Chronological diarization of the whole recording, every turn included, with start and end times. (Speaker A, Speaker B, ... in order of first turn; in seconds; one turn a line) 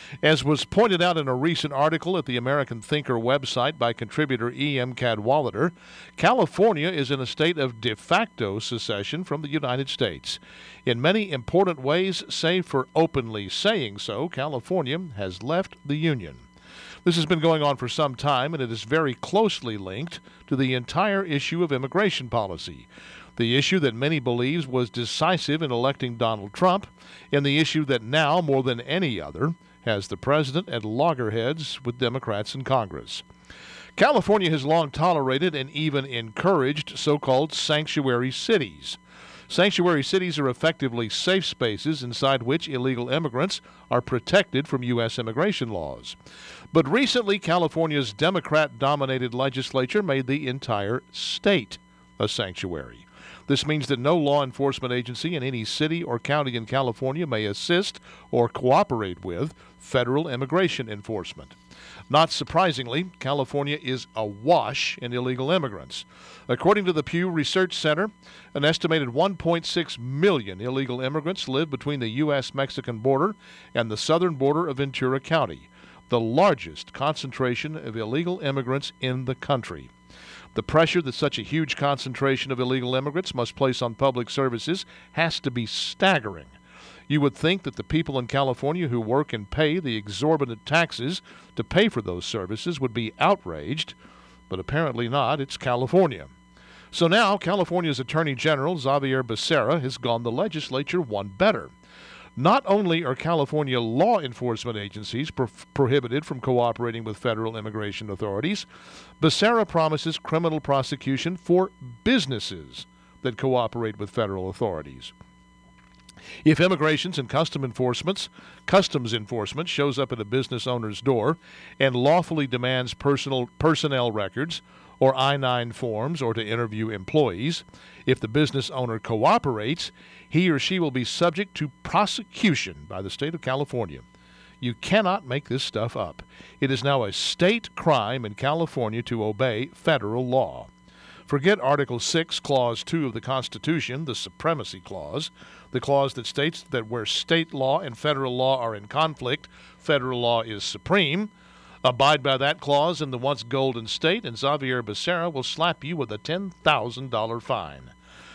Speaker A: 0.2-16.4
Speaker A: 17.0-33.2
Speaker A: 34.0-46.2
Speaker A: 46.7-61.6
Speaker A: 62.1-79.9
Speaker A: 80.5-86.5
Speaker A: 87.1-94.0
Speaker A: 94.5-96.3
Speaker A: 96.9-101.7
Speaker A: 102.4-108.7
Speaker A: 109.2-115.1
Speaker A: 116.4-134.1
Speaker A: 134.6-140.7
Speaker A: 141.3-151.3
Speaker A: 151.8-157.9